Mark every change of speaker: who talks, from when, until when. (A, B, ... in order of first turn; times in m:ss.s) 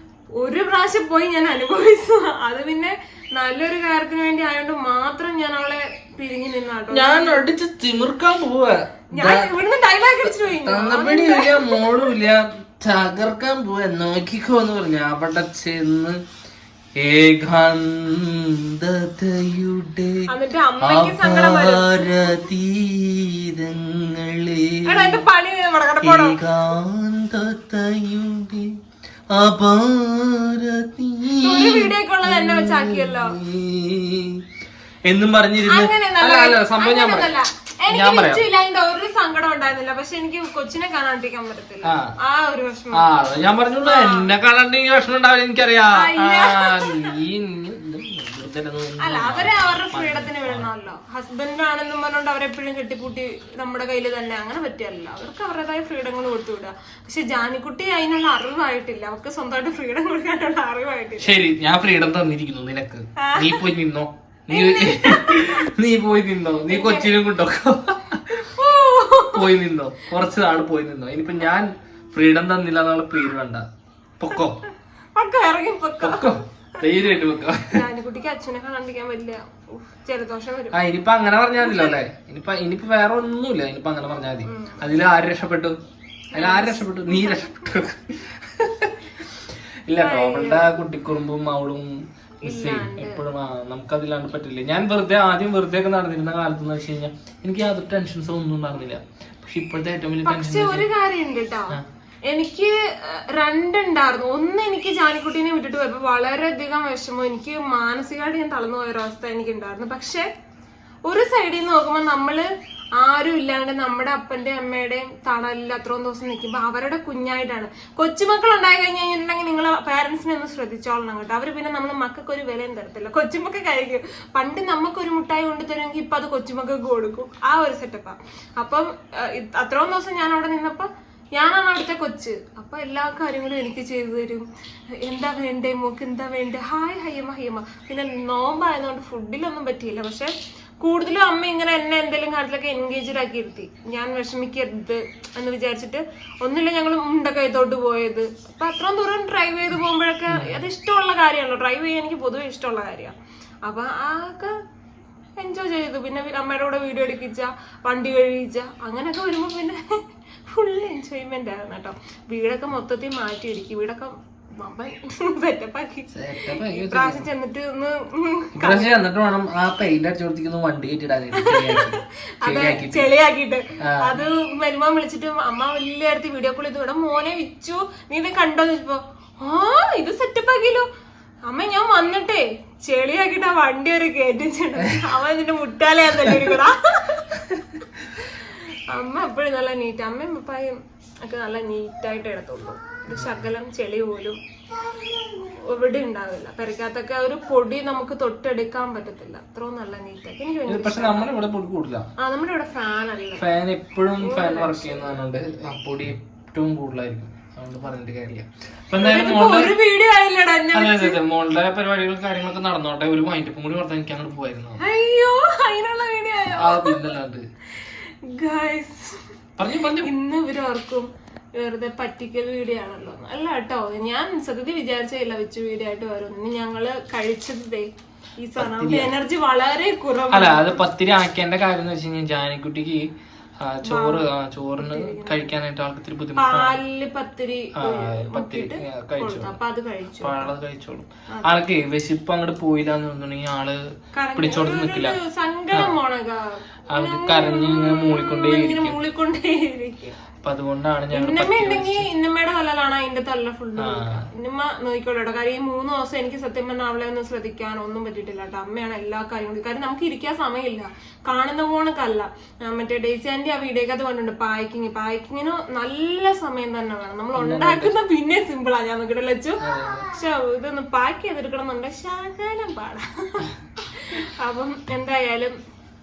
0:00.4-0:07.4 A
0:06.9-0:09.6 B
0:09.1-0:11.9 A
0:10.2-0:16.2 B
0:17.0-0:20.3 B
0:20.3-0:22.4 A
0:20.8-0:25.2 B
0:24.8-0:26.4 A
0:26.0-0:28.8 B
0:29.3-0:34.4 B
0:31.4-0:33.4 A
0:35.0-0:37.4 B
0:35.6-0:43.2 A
0:37.9-0:38.5 B
0:42.9-0:50.7 B
0:43.8-0:44.3 A
0:46.0-0:47.1 A
0:49.0-1:01.3 A
1:01.2-1:08.5 B
1:03.2-1:03.7 A
1:04.5-1:05.6 A
1:06.7-1:07.1 A
1:08.5-1:09.5 A
1:09.3-1:13.6 B
1:14.2-1:14.6 B
1:15.2-1:16.8 A
1:16.0-1:17.8 B
1:17.7-1:20.8 A
1:20.7-1:25.8 B
1:21.6-1:21.9 A
1:24.5-1:24.9 A
1:26.3-1:27.6 A
1:26.4-1:29.0 B
1:29.9-1:31.9 B
1:30.0-1:30.7 A
1:32.4-1:33.2 A
1:32.4-1:40.9 B
1:40.2-1:50.2 A
1:51.1-1:52.5 A
1:53.0-2:14.5 A
2:15.0-2:33.2 A
2:30.3-2:30.7 B
2:33.7-2:34.6 A
2:35.4-2:49.0 A
2:46.1-2:47.3 B
2:48.6-2:53.1 B
2:51.3-3:00.9 A
2:53.8-2:54.2 B
3:01.5-3:07.4 A
3:08.2-3:14.4 A
3:13.1-3:13.5 B
3:15.0-3:21.3 A
3:20.7-3:22.1 B
3:22.2-3:23.4 A
3:23.4-3:29.8 B
3:24.2-3:25.1 A
3:29.0-3:31.2 A
3:30.7-3:34.8 B
3:34.8-3:37.0 A
3:36.5-3:37.4 B
3:37.8-3:39.2 A
3:39.6-3:40.1 B
3:40.0-3:47.9 A
3:48.4-3:50.8 A
3:48.6-3:49.1 B
3:50.3-3:53.0 B
3:53.6-3:56.8 B
3:53.8-3:54.2 A
3:54.8-3:55.4 A
3:56.4-4:00.5 A
3:57.8-3:59.6 B
4:00.2-4:03.8 B
4:04.1-4:10.2 A
4:04.4-4:05.2 B
4:06.9-4:09.0 B
4:10.4-4:12.1 B
4:11.1-4:35.5 A
4:13.8-4:14.3 B
4:27.4-4:28.0 B
4:29.6-4:30.1 B